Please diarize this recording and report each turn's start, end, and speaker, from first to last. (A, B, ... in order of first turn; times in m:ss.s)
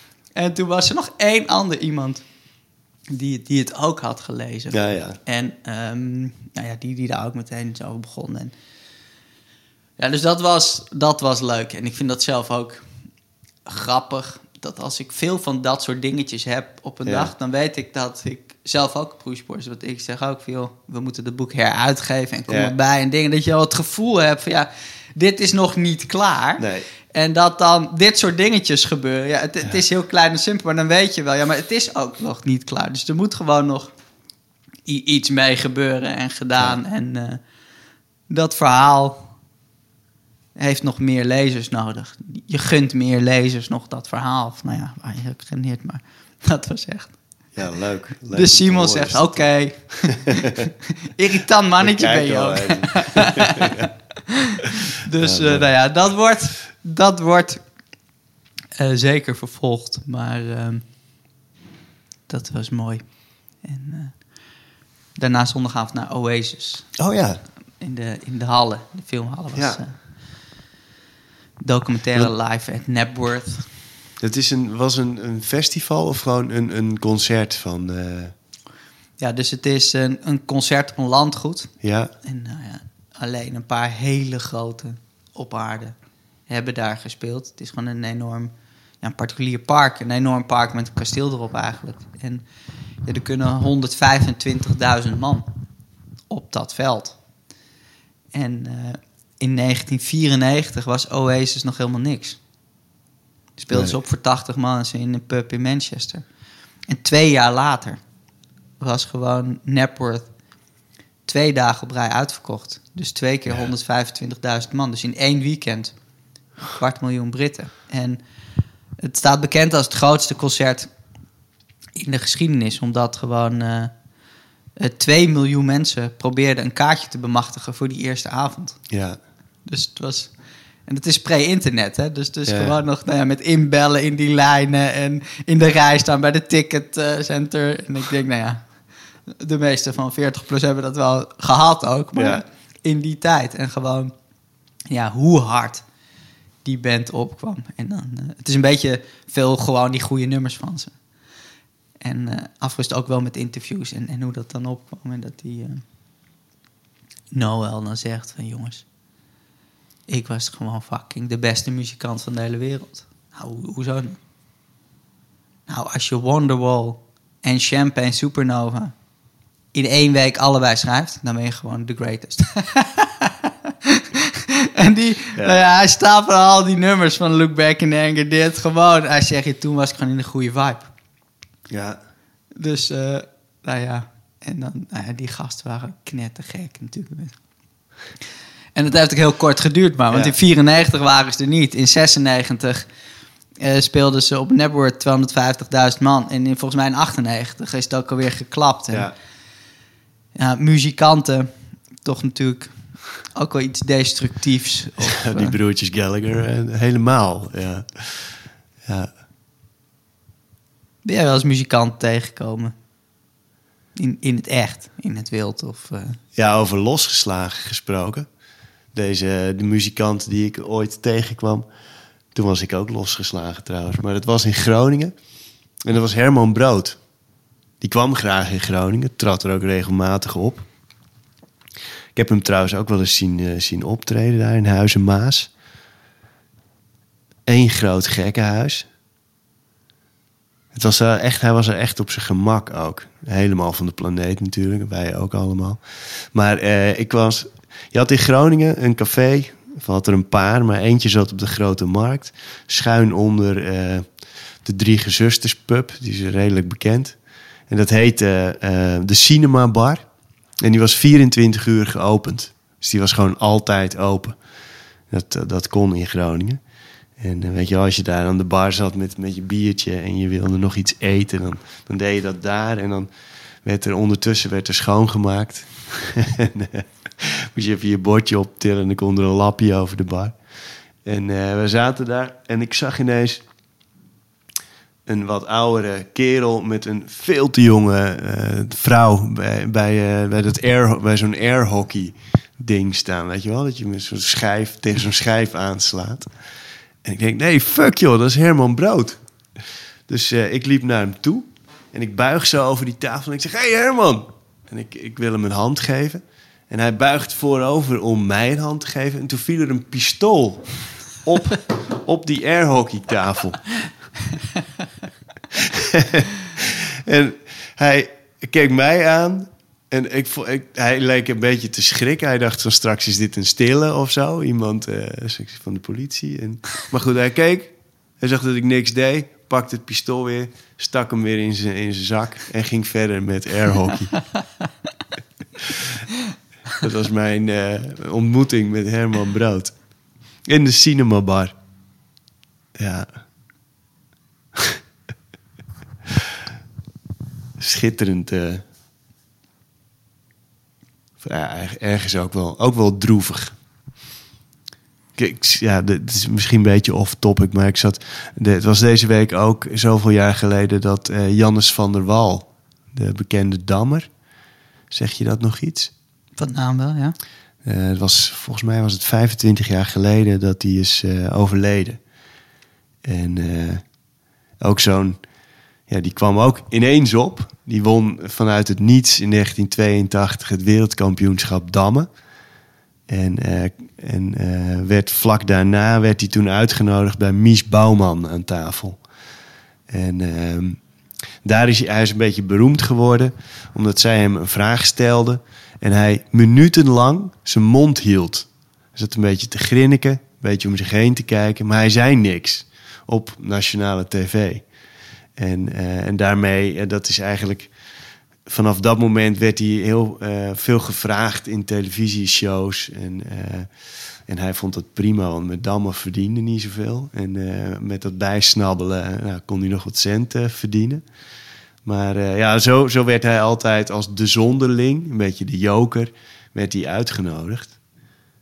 0:00.4-0:02.2 A
0:03.1-0:08.5 A
0:04.7-0:05.2 B
0:10.0-0:12.8 A
0:13.7-0:33.9 A
0:17.0-0:17.3 B
0:22.5-0:22.7 B
0:26.6-0:26.9 B
0:34.9-0:37.4 A
0:38.3-0:39.3 A
0:40.6-0:47.2 A
0:47.6-0:50.7 B
0:48.3-0:57.6 A
0:51.8-0:53.9 B
0:55.2-0:55.7 B
0:58.8-1:00.9 A
1:02.3-1:04.2 A
1:05.2-1:06.9 A
1:07.0-1:07.4 B
1:07.8-1:10.0 A
1:09.6-1:09.8 B
1:11.6-1:13.7 A
1:14.2-1:18.3 B
1:19.2-1:26.0 A
1:21.8-1:22.1 B
1:26.5-1:32.4 A
1:33.0-1:35.5 A
1:36.3-1:37.2 A
1:38.3-1:42.4 A
1:43.6-1:46.2 A
1:43.7-1:44.0 B
1:46.9-1:48.0 A
1:48.8-1:50.3 A
1:51.3-1:56.0 A
1:56.6-1:58.2 A
1:59.0-2:00.9 A
2:02.0-2:03.9 A
2:04.8-2:08.8 A
2:08.9-2:09.2 B
2:09.7-2:10.3 A
2:10.9-2:18.6 A
2:12.5-2:12.8 B
2:19.3-2:24.1 A
2:22.2-2:22.4 B
2:24.9-2:25.8 A
2:26.6-2:31.0 A
2:32.0-2:35.8 A
2:37.3-2:38.8 A
2:40.1-2:44.2 A
2:45.7-2:48.9 A
2:49.7-3:00.9 A
3:01.7-3:02.0 B
3:02.6-3:07.4 A
3:08.8-3:12.9 A
3:13.6-3:19.1 A
3:20.4-3:21.5 A
3:22.0-3:25.6 A
3:25.0-3:29.1 B
3:31.0-3:32.7 A
3:34.0-3:36.2 A
3:36.4-3:38.3 B
3:38.9-3:41.7 B
3:42.3-3:45.1 B
3:45.8-3:47.0 B
3:47.8-3:50.7 B
3:52.2-3:55.5 B
3:57.5-3:58.9 B
4:00.7-4:05.8 B
4:06.3-4:14.0 B
4:14.6-4:17.2 B
4:17.7-4:20.0 B
4:20.6-4:24.4 B
4:25.1-4:26.6 B
4:27.2-4:33.1 B
4:33.6-4:40.4 B
4:41.0-4:43.4 B
4:45.1-4:56.3 B
4:57.0-4:59.2 B
5:00.1-5:13.7 B
5:15.5-5:34.2 B
5:35.6-5:36.0 B
5:36.8-5:39.8 B
5:40.5-5:41.6 B
5:42.8-5:43.1 B
5:44.6-5:44.8 B
5:47.6-5:48.6 B
5:51.2-5:53.6 B
5:55.2-6:04.1 B
6:04.9-6:05.9 B
6:06.4-6:07.2 A
6:07.6-6:12.0 B
6:13.0-6:13.8 B
6:14.6-6:15.2 B
6:15.9-6:22.1 B
6:23.1-6:29.0 B
6:29.9-6:30.8 B
6:31.4-6:44.7 B
6:45.4-6:47.7 B
6:48.5-6:53.7 B
6:54.3-7:01.0 B
7:01.8-7:07.8 B